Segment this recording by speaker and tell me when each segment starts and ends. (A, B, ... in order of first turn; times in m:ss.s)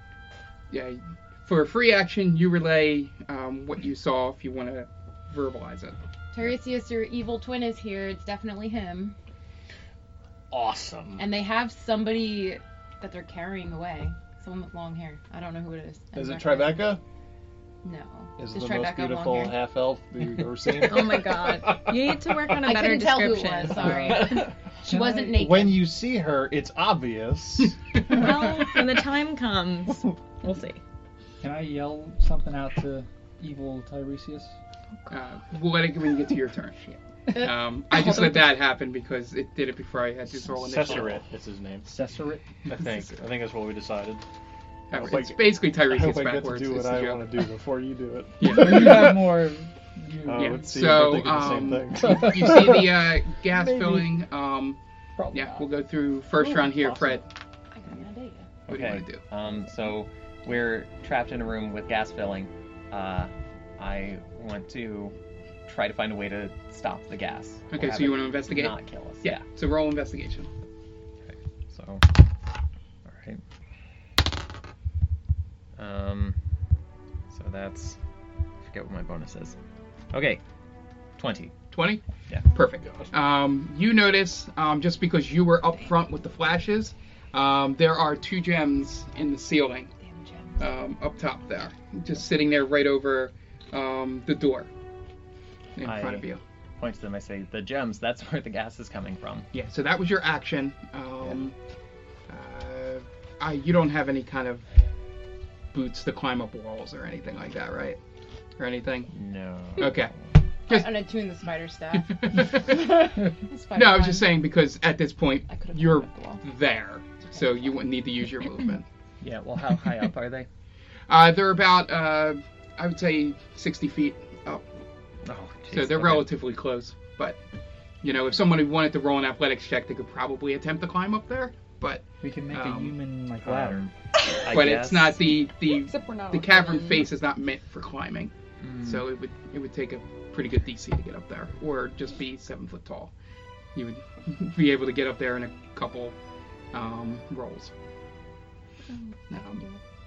0:00.7-0:06.0 A
0:06.3-0:09.2 B
0:10.5-0:11.3 C
0:11.2-0:17.0 B
0:16.1-0:17.0 D
0:17.8-0:19.7 B
0:18.4-0:21.4 D
0:20.7-0:24.5 E
0:22.6-0:25.9 B
0:24.9-0:25.3 F
0:25.3-0:27.8 D
0:28.0-0:30.8 E
0:31.4-0:34.5 F
0:35.1-0:41.2 A
0:37.9-0:38.4 E
0:40.5-0:41.9 C
0:41.8-0:42.4 F
0:42.7-0:44.2 C
0:42.7-0:43.1 A
0:44.9-0:47.3 A
0:45.0-0:49.1 D
0:48.4-0:49.2 A
0:48.4-0:50.7 F
0:50.2-0:52.9 D
0:50.3-0:54.8 A
0:52.0-0:52.8 F
0:53.5-0:54.0 F
0:55.2-0:55.6 F
0:55.3-0:57.2 A
0:56.4-0:57.2 F
0:57.7-0:58.5 B
0:58.7-0:59.2 A
0:58.7-1:05.1 G
1:05.6-1:09.4 G
1:07.7-1:10.5 A
1:11.2-1:12.0 G
1:13.0-1:13.4 G
1:15.8-1:16.4 G
1:17.3-1:18.0 G
1:18.6-1:19.6 G
1:20.1-1:20.4 G
1:21.2-1:21.5 G
1:21.7-1:22.0 A
1:22.5-1:29.9 A
1:30.0-1:30.8 B
1:30.6-1:34.7 A
1:35.8-1:36.4 A
1:35.8-1:36.3 G
1:36.8-1:39.5 G
1:39.5-1:41.5 A
1:42.3-1:44.7 A
1:45.7-1:48.0 A
1:48.6-1:49.1 A
1:49.1-1:50.2 G
1:49.8-1:50.1 A
1:50.7-1:54.3 B
1:50.7-1:51.0 A
1:51.9-1:53.0 A
1:53.7-1:58.8 A
1:55.5-1:56.4 B
1:57.2-1:57.6 B
1:59.2-2:00.5 G
2:01.1-2:04.6 A
2:05.2-2:06.3 G
2:05.7-2:07.4 A
2:08.0-2:13.0 A
2:12.2-2:13.8 F
2:13.4-2:15.2 G
2:14.4-2:23.1 A
2:15.7-2:17.1 E
2:18.6-2:19.0 G
2:23.7-2:26.2 A
2:26.7-2:27.7 A
2:29.3-2:29.6 A